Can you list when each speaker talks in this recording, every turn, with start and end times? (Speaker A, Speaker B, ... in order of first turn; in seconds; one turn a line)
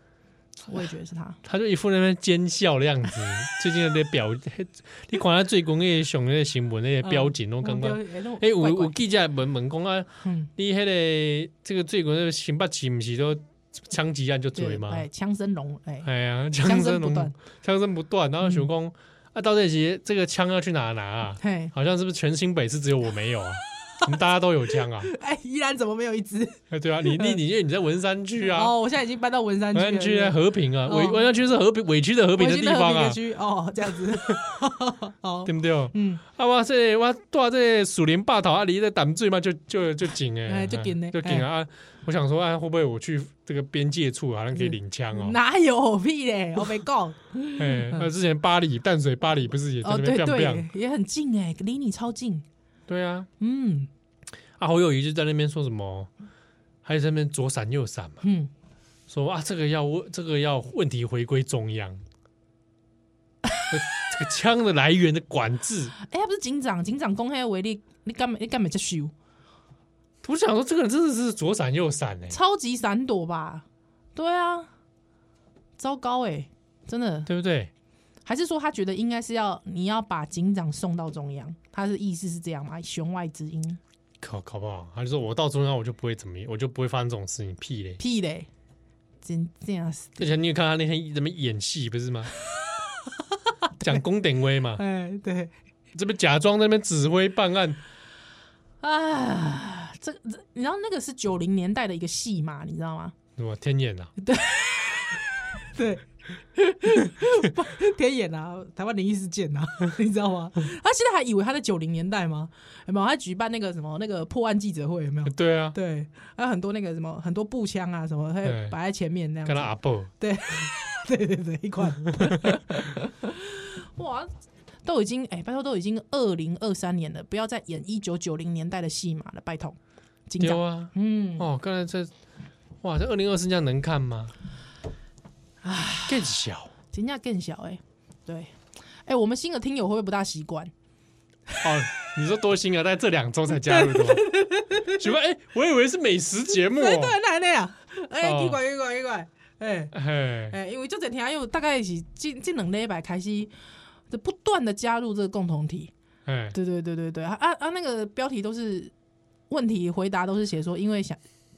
Speaker A: 0.7-1.4
Speaker B: 1.4-15.1
Speaker A: 7.0-9.0
Speaker A: 10.2-10.5
Speaker A: 14.6-16.1
Speaker B: 16.0-25.1
Speaker A: 16.6-17.4
Speaker A: 21.4-21.7
Speaker A: 25.0-27.4
Speaker B: 26.7-28.8
Speaker A: 28.4-31.3
Speaker B: 29.7-33.2
Speaker A: 32.4-36.2
Speaker B: 34.1-34.4
Speaker B: 35.5-45.4
Speaker A: 40.5-41.5
Speaker A: 44.5-48.1
Speaker B: 47.6-50.7
Speaker A: 49.8-52.5
Speaker B: 52.9-53.3
Speaker A: 53.4-53.9
Speaker B: 54.6-56.1
Speaker B: 56.8-58.2
Speaker A: 58.2-58.5
Speaker B: 59.1-62.0
Speaker B: 63.7-65.9
Speaker A: 66.0-69.1
Speaker B: 70.2-72.4
Speaker A: 72.3-74.7
Speaker A: 75.8-77.3
Speaker B: 77.3-77.7
Speaker A: 78.3-83.8
Speaker B: 84.2-88.0
Speaker A: 88.0-88.5
Speaker A: 89.2-90.2
Speaker B: 90.2-92.3
Speaker B: 93.8-94.8
Speaker A: 94.8-95.5
Speaker B: 95.9-97.8
Speaker A: 98.8-103.2
Speaker B: 103.4-104.1
Speaker A: 104.2-124.3
Speaker B: 115.3-115.8
Speaker B: 118.5-118.8
Speaker B: 119.5-120.1
Speaker A: 124.8-129.8
Speaker A: 130.3-131.5
Speaker B: 130.4-132.1
Speaker B: 132.8-134.3
Speaker A: 135.6-136.3
Speaker B: 136.1-136.7
Speaker A: 136.9-138.5
Speaker A: 139.1-140.7
Speaker B: 141.6-144.3
Speaker A: 143.6-145.0
Speaker B: 144.9-147.2
Speaker A: 146.5-149.9
Speaker B: 148.2-148.6
Speaker B: 149.9-150.6
Speaker A: 150.5-153.5
Speaker A: 154.1-155.9
Speaker B: 156.3-156.6
Speaker A: 156.5-158.9
Speaker A: 159.5-161.2